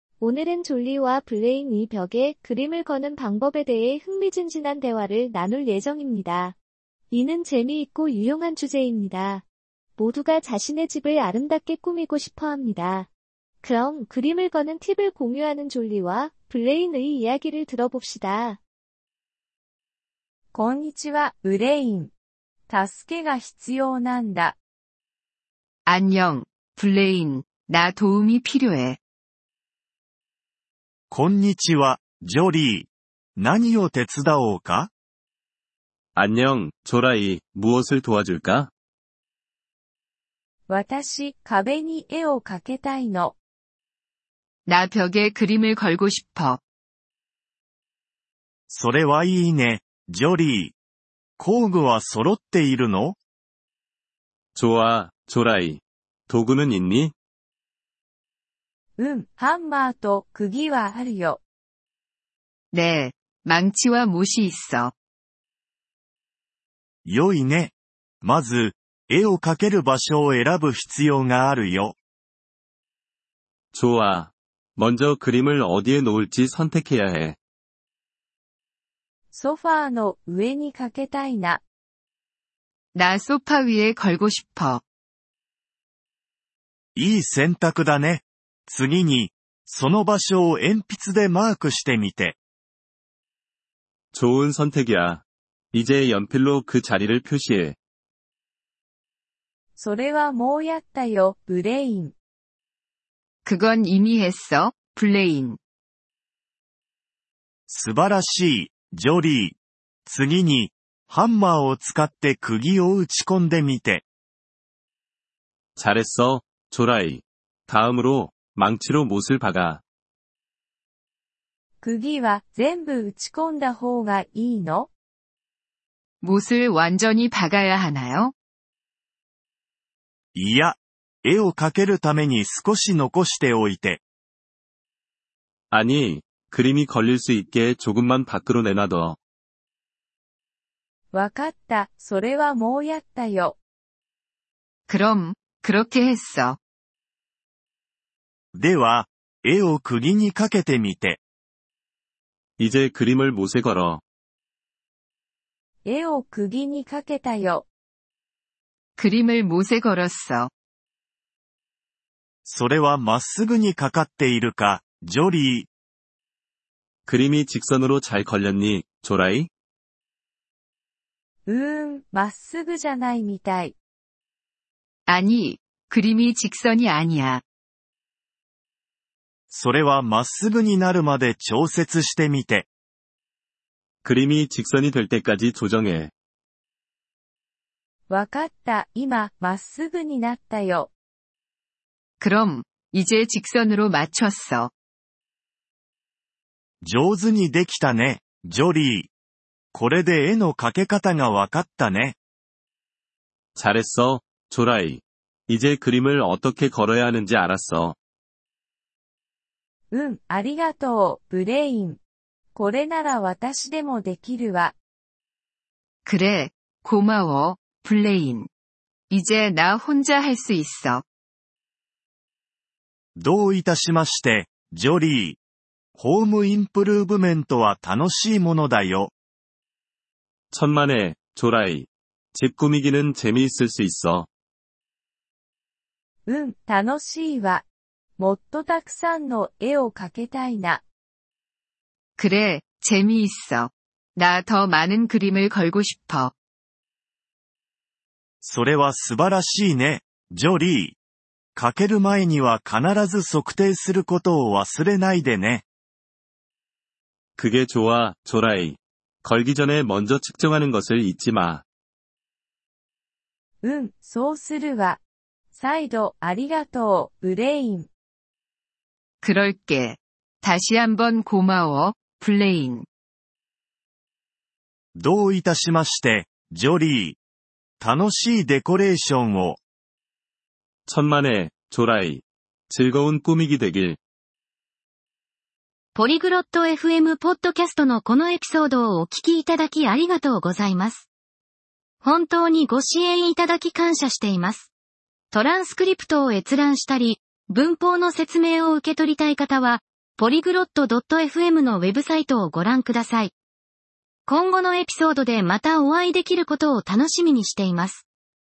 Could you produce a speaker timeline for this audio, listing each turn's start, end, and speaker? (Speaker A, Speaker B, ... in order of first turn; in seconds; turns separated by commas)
Speaker A: 0.2-6.6, Speaker A: 7.1-9.4, Speaker A: 10.0-13.1, Speaker A: 13.6-18.6, Speaker B: 20.5-22.1, Speaker B: 22.7-24.6, Speaker C: 25.9-29.0, Speaker D: 31.1-34.9, Speaker E: 36.1-38.7, Speaker B: 40.7-43.3, Speaker C: 44.7-46.6, Speaker D: 48.7-50.7, Speaker D: 51.4-53.2, Speaker E: 54.5-57.1, Speaker B: 59.0-61.4, Speaker C: 62.7-64.9, Speaker D: 67.1-72.0, Speaker E: 73.7-77.4, Speaker B: 79.3-81.6, Speaker C: 82.9-84.8, Speaker D: 87.0-92.4, Speaker E: 94.1-97.8, Speaker B: 99.8-102.1, Speaker C: 103.5-105.6, Speaker D: 107.7-109.5, Speaker D: 110.1-114.0, Speaker E: 115.8-119.8, Speaker B: 121.8-124.9, Speaker C: 126.2-128.3, Speaker D: 130.3-134.0, Speaker E: 135.7-139.2, Speaker B: 141.1-143.6, Speaker C: 144.9-146.6, Speaker D: 148.5-151.2, Speaker E: 152.6-154.0, Speaker B: 155.8-157.7, Speaker C: 159.0-160.5, Speaker D: 162.4-165.7, Speaker E: 167.1-169.5, Speaker B: 171.5-173.7, Speaker C: 175.1-177.4, Speaker D: 179.5-182.7, Speaker E: 184.0-186.1, Speaker B: 188.1-190.9, Speaker C: 192.2-194.7, Speaker D: 196.8-199.1, Speaker D: 199.7-202.2, Speaker E: 203.6-208.0, Speaker B: 209.9-212.0, Speaker B: 212.6-214.8, Speaker C: 216.1-218.5, Speaker C: 219.1-221.0, Speaker D: 223.2-225.4, Speaker D: 226.0-229.1, Speaker E: 230.5-234.3, Speaker B: 236.3-237.6, Speaker B: 238.2-240.8, Speaker C: 242.2-246.3, Speaker D: 248.4-251.0, Speaker D: 251.6-255.6, Speaker E: 257.4-261.6, Speaker B: 263.6-265.0, Speaker B: 265.5-267.9, Speaker C: 269.2-272.9, Speaker D: 275.0-277.2, Speaker D: 277.8-279.6, Speaker E: 280.9-284.0, Speaker F: 285.9-291.1, Speaker F: 292.0-294.7, Speaker F: 295.3-303.3, Speaker F: 304.3-308.1